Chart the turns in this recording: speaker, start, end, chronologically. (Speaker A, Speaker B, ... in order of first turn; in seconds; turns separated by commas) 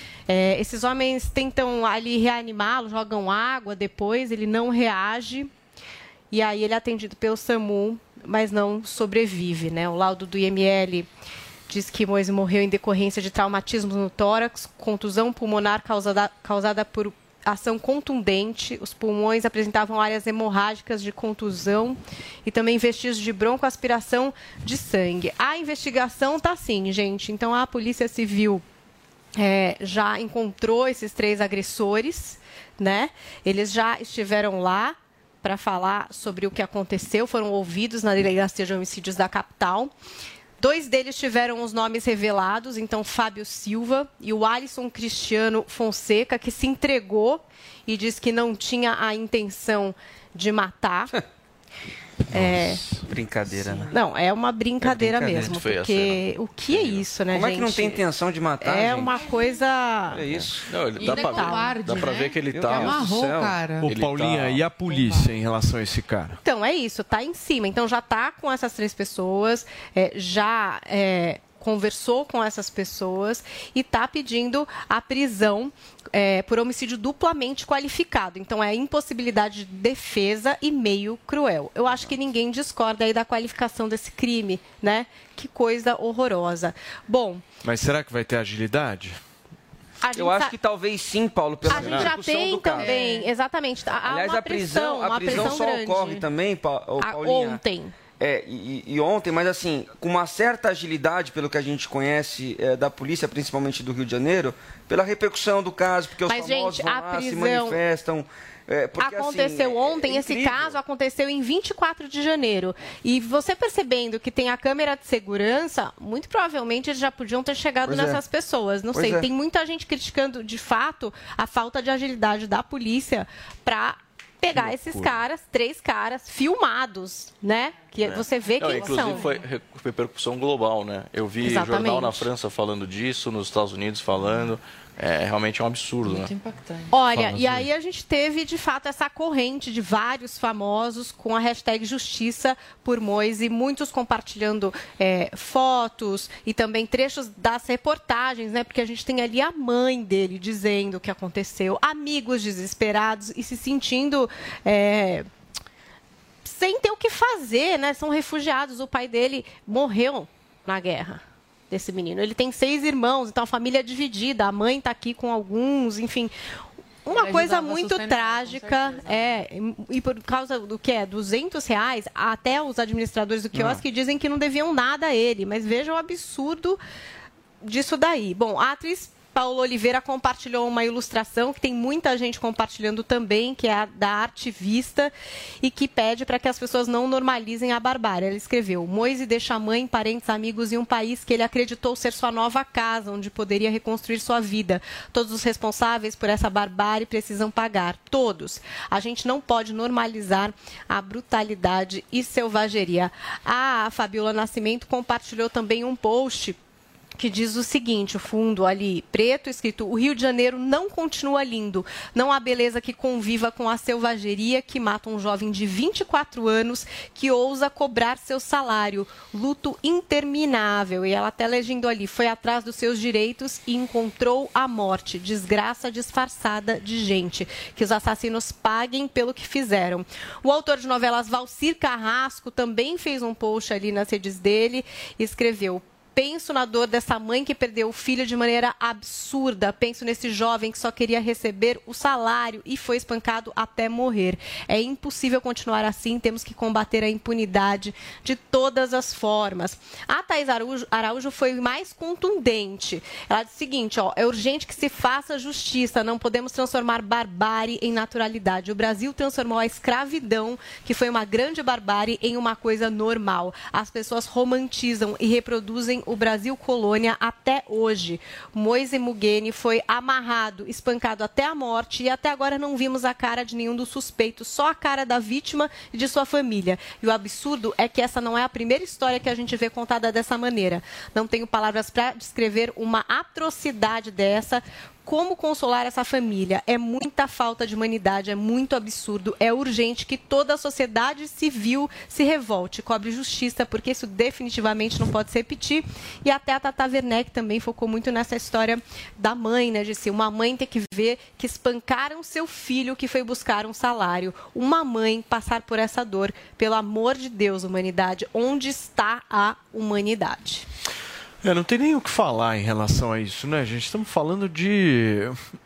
Speaker A: 0.3-5.5, Speaker A: 6.3-11.1, Speaker A: 11.7-28.6, Speaker A: 29.4-39.9, Speaker A: 40.6-51.1, Speaker A: 52.3-52.8, Speaker B: 52.3-54.0, Speaker C: 52.4-53.0, Speaker A: 53.9-58.0, Speaker D: 54.8-57.1, Speaker B: 55.0-55.5, Speaker B: 57.3-59.3, Speaker A: 58.6-60.2, Speaker B: 60.1-60.6, Speaker D: 60.7-63.2, Speaker E: 61.0-63.9, Speaker A: 61.2-61.7, Speaker B: 62.5-63.6, Speaker D: 63.9-64.6, Speaker C: 63.9-66.4, Speaker E: 64.9-65.3, Speaker A: 66.4-87.4, Speaker C: 87.6-89.2, Speaker A: 90.0-90.5, Speaker B: 90.2-93.3, Speaker E: 91.7-92.2, Speaker A: 91.7-96.2, Speaker B: 94.1-97.6, Speaker A: 97.0-98.0, Speaker B: 98.2-110.8, Speaker A: 106.3-107.8, Speaker A: 109.0-129.4, Speaker B: 117.9-118.2, Speaker B: 118.9-119.3, Speaker C: 124.5-125.1, Speaker D: 128.0-136.3, Speaker E: 128.8-129.3, Speaker A: 131.4-132.3, Speaker E: 136.1-136.9, Speaker A: 136.9-155.3, Speaker C: 137.1-137.7, Speaker A: 156.4-166.3, Speaker A: 167.1-176.8, Speaker E: 167.1-169.4, Speaker A: 177.6-206.6, Speaker A: 207.2-310.6, Speaker C: 311.4-315.4